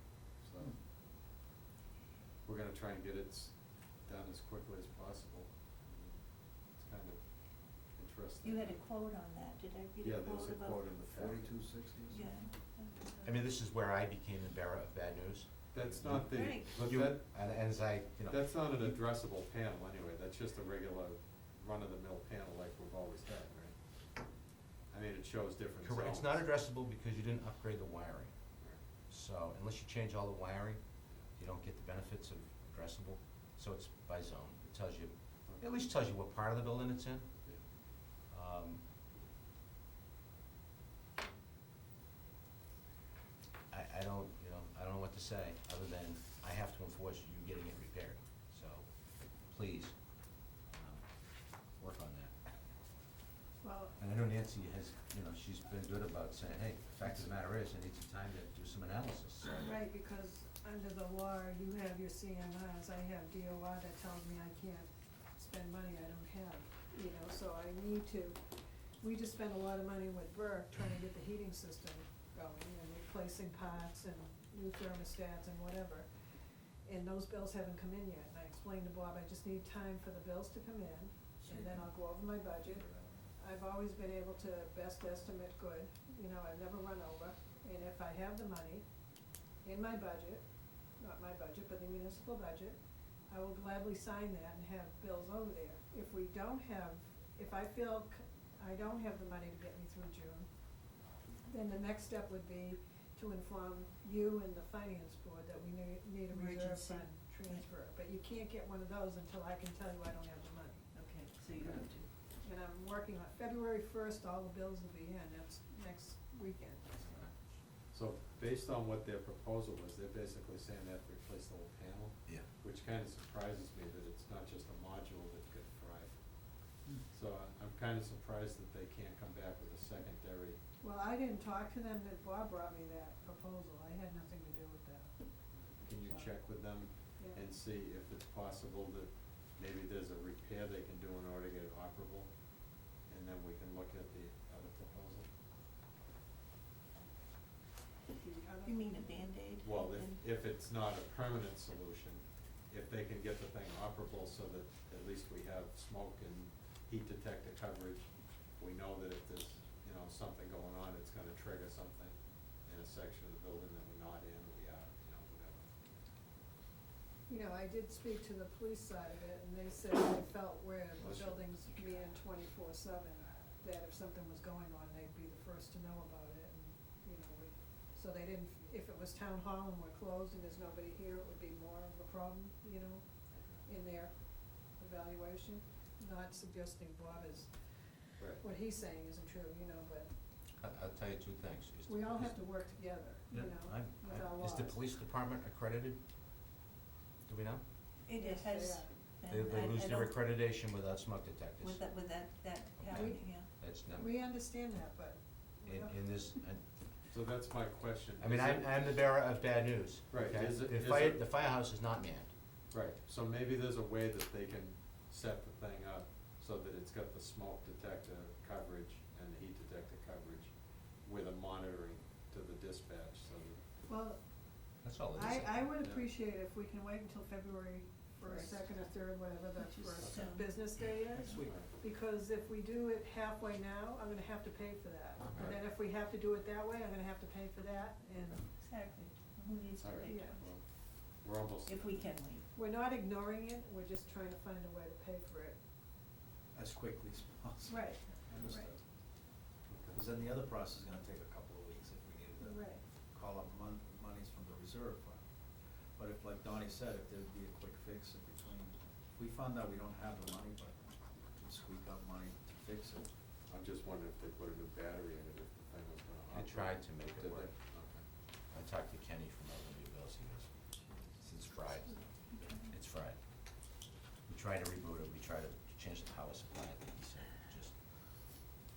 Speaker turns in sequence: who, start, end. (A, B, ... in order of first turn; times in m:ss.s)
0:00.4-0:00.7 A
0:02.4-0:08.8 A
0:08.4-0:11.0 B
0:10.0-0:11.6 A
0:11.1-0:12.4 C
0:12.1-0:13.4 B
0:13.2-0:19.0 D
0:15.7-0:24.2 A
0:16.3-0:16.7 B
0:24.9-0:26.4 A
0:25.8-0:28.4 D
0:29.1-0:30.8 D
0:31.4-0:37.3 D
0:38.3-0:38.8 D
0:43.7-0:48.9 D
0:49.5-0:49.9 D
0:50.7-0:51.0 D
0:51.8-0:52.3 D
0:53.6-0:54.0 E
0:54.0-0:59.7 D
0:59.6-1:08.4 E
1:09.0-1:16.1 E
1:16.8-1:28.8 E
1:21.4-1:21.8 B
1:29.6-1:30.4 E
1:31.0-1:32.8 E
1:33.3-1:40.5 E
1:41.4-1:50.9 E
1:46.3-1:47.6 B
1:50.9-1:52.1 B
1:52.4-1:56.9 E
1:56.9-1:57.3 D
1:57.9-2:10.6 A
2:10.8-2:15.1 E
2:15.5-2:22.3 A
2:15.9-2:16.3 E
2:23.1-2:25.3 A
2:28.1-2:29.3 E
2:28.6-2:30.2 B
2:29.6-2:45.7 A
2:47.3-3:10.1 E
2:51.0-2:52.0 A
3:03.3-3:03.6 A
3:10.6-3:16.0 D
3:11.9-3:14.8 E
3:17.2-3:17.6 D
3:18.0-3:20.2 B
3:18.1-3:18.9 E
3:19.3-3:21.9 D
3:21.6-3:23.5 B
3:22.8-3:24.2 D
3:22.9-3:26.3 E
3:25.6-3:26.7 D
3:27.1-3:29.0 A
3:28.2-3:32.3 D
3:30.1-3:31.2 A
3:32.7-3:43.7 A
3:43.9-3:44.5 E
3:44.8-3:45.7 D
3:45.1-3:58.5 E
3:45.8-3:46.0 A
3:48.2-3:48.7 B
3:49.6-3:51.5 B
3:50.0-3:50.3 A
3:51.2-3:51.5 C
3:51.4-3:51.7 A
3:55.3-3:55.6 A
3:58.5-4:00.4 B
3:59.8-4:02.1 A
4:00.0-4:00.4 E
4:01.7-4:02.5 B
4:02.6-4:05.6 E
4:06.5-4:08.8 C
4:07.7-4:08.7 E
4:09.7-4:10.0 A
4:09.9-4:15.2 C
4:12.4-4:12.8 E
4:16.0-4:20.8 C
4:21.4-4:23.1 C
4:23.5-4:28.0 A
4:26.3-4:27.5 D
4:28.5-4:30.5 D
4:31.1-4:37.8 D
4:32.3-4:32.7 B